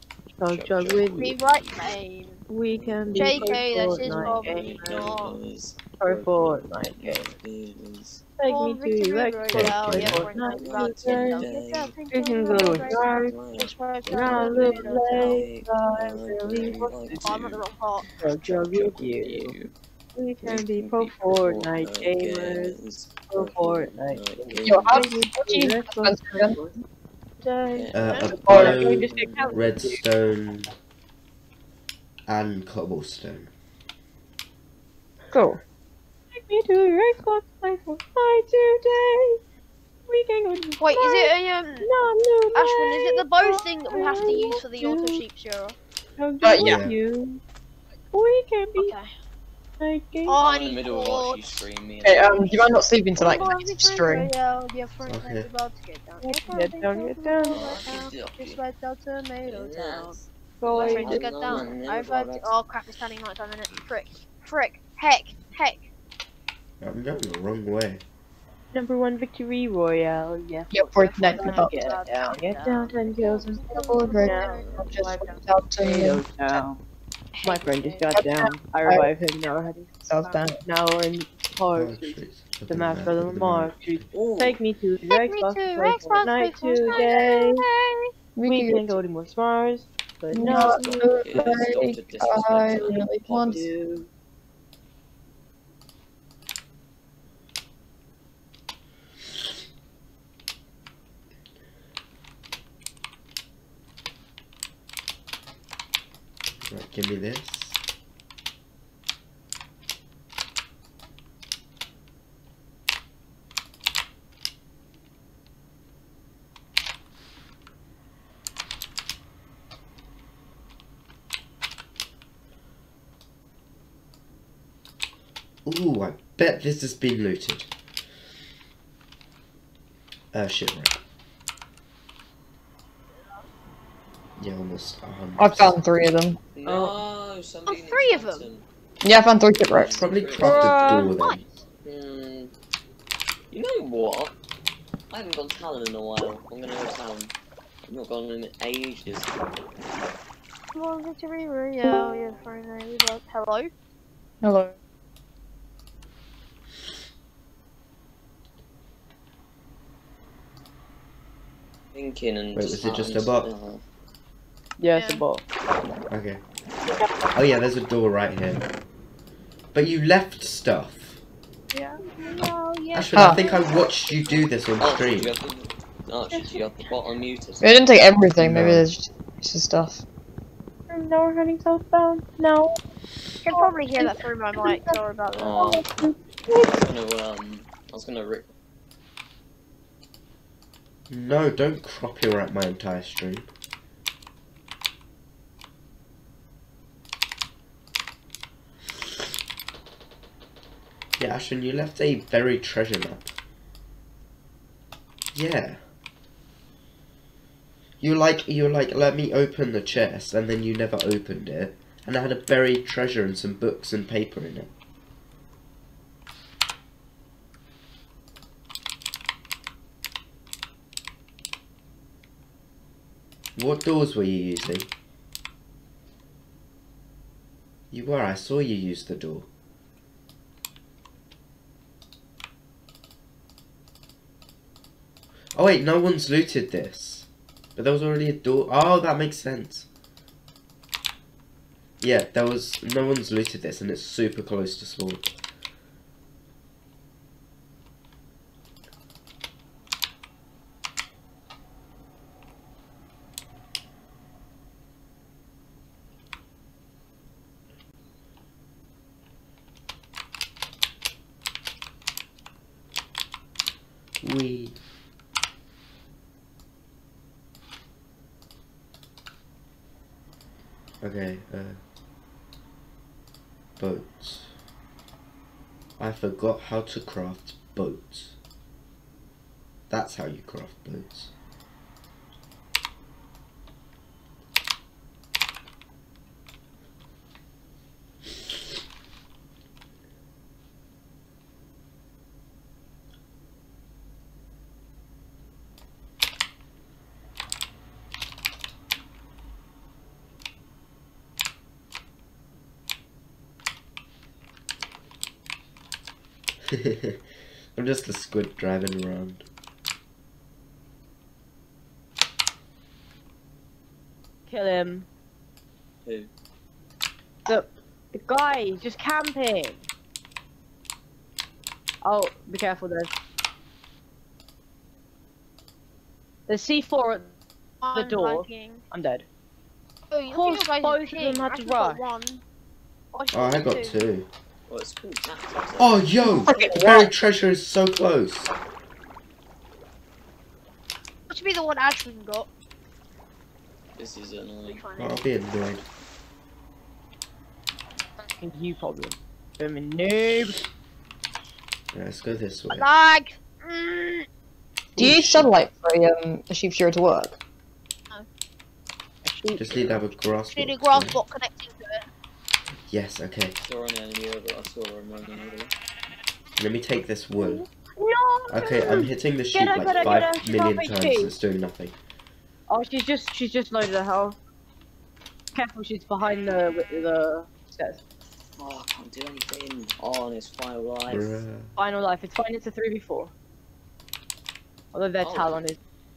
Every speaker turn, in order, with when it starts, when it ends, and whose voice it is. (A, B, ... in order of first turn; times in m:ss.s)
0:00.4-0:01.4 A
0:00.5-0:02.0 B
0:01.2-0:02.4 C
0:02.5-0:05.2 A
0:02.7-0:08.2 B
0:03.1-0:05.4 C
0:06.0-0:07.3 A
0:08.4-0:11.4 A
0:08.5-0:15.5 C
0:09.5-0:10.2 D
0:09.7-0:11.9 B
0:12.1-0:13.3 A
0:12.4-0:19.7 B
0:14.1-0:17.3 A
0:17.2-0:18.0 C
0:18.2-0:19.5 A
0:20.2-0:22.8 A
0:20.4-0:25.0 B
0:23.3-0:26.8 A
0:24.6-0:26.6 E
0:27.4-0:30.0 A
0:27.7-0:29.8 B
0:27.9-0:30.7 D
0:28.1-0:28.6 C
0:32.3-0:33.5 D
0:35.3-0:35.6 E
0:36.3-0:39.4 A
0:40.1-0:45.2 A
0:40.8-0:41.9 C
0:42.5-0:45.8 C
0:46.2-0:47.4 A
0:46.4-0:46.8 E
0:46.6-0:47.0 D
0:48.1-0:48.9 A
0:48.8-0:49.1 C
0:49.8-0:50.4 A
0:50.2-0:51.6 C
0:50.4-0:52.9 B
0:52.0-0:54.3 E
0:53.1-1:00.2 C
0:55.0-0:55.5 D
0:56.2-0:57.6 A
0:57.5-0:58.6 B
0:59.4-1:02.5 B
1:00.6-1:01.2 E
1:00.6-1:01.7 A
1:00.7-1:05.9 C
1:06.8-1:08.0 D
1:08.7-1:16.8 A
1:10.7-1:11.7 E
1:11.0-1:15.4 C
1:13.7-1:16.6 E
1:14.5-1:15.0 B
1:17.4-1:18.1 C
1:17.4-1:19.9 A
1:18.2-1:19.1 E
1:20.0-1:20.6 E
1:20.6-1:27.6 A
1:21.7-1:24.1 D
1:24.1-1:24.6 B
1:25.1-1:28.1 C
1:28.4-1:29.0 E
1:28.4-1:31.0 A
1:30.3-1:33.6 E
1:30.4-1:33.7 B
1:30.4-1:31.0 C
1:33.5-1:34.1 A
1:46.6-1:47.8 D
2:05.6-2:07.7 D
2:10.3-2:11.0 D
2:13.1-2:13.4 C
2:14.4-2:15.9 D
2:15.4-2:16.4 E
2:16.5-2:18.6 B
2:16.6-2:17.0 A
2:17.7-2:18.4 C
2:19.0-2:20.7 E
2:19.6-2:21.0 B
2:19.9-2:21.4 D
2:20.4-2:21.1 A
2:21.8-2:22.5 B
2:23.5-2:24.4 B
2:25.1-2:27.3 B
2:27.9-2:29.4 B
2:30.8-2:33.7 C
2:34.4-2:34.7 E
2:41.9-2:43.8 B
2:42.5-2:43.5 D
2:44.8-2:45.4 A
2:44.9-2:45.2 C
2:46.1-2:46.4 D
2:46.8-2:47.1 A
2:47.4-2:48.6 D
2:49.7-2:51.2 D
2:51.7-2:52.4 A
2:51.7-2:54.4 C
2:52.9-2:55.3 D
2:53.1-2:53.4 E
2:54.8-2:57.8 B
2:56.3-2:56.9 A
2:57.6-3:00.0 E
2:58.4-2:58.9 D
3:00.9-3:02.8 A
3:03.4-3:05.8 C
3:03.4-3:05.0 A
3:05.4-3:08.5 B
3:05.6-3:06.8 A
3:11.1-3:13.5 D
3:21.2-3:23.3 D
3:25.3-3:25.8 D
3:28.0-3:34.7 D
3:43.6-3:44.9 D
3:47.9-3:49.5 D
3:55.5-3:59.9 D
4:02.0-4:05.3 D
4:24.2-4:24.8 D
4:31.0-4:31.8 D
4:33.8-4:34.5 D
4:36.0-4:38.4 D
4:39.9-4:41.3 D
5:06.7-5:07.2 D
5:07.8-5:09.4 D
5:14.5-5:15.1 A
5:16.0-5:16.3 B
5:17.4-5:19.8 A
5:22.0-5:23.1 A
5:26.5-5:27.3 A
5:27.8-5:28.8 C
5:27.9-5:29.2 A
5:30.1-5:32.4 C
5:30.3-5:32.0 A
5:33.1-5:34.0 C
5:33.3-5:34.3 D
5:34.7-5:36.7 B
5:35.8-5:38.5 D
5:36.4-5:37.0 A
5:41.3-5:42.5 C
5:44.0-5:44.9 B
5:44.6-5:45.2 C
5:45.0-5:45.9 D
5:48.2-5:50.6 A
5:51.9-5:52.9 D
5:52.7-5:54.3 C
5:55.0-5:57.4 E
5:55.0-5:55.5 D
5:59.2-6:00.0 A
5:59.6-6:01.2 D
6:00.5-6:02.0 C
6:02.9-6:03.6 D
6:03.6-6:05.7 B
6:06.6-6:07.6 D
6:07.4-6:11.3 A
6:08.5-6:12.0 D
6:12.7-6:14.4 A
6:15.5-6:18.0 A
6:18.6-6:21.4 B
6:21.1-6:21.7 D
6:21.8-6:23.3 A
6:24.9-6:25.8 A
6:25.2-6:25.6 B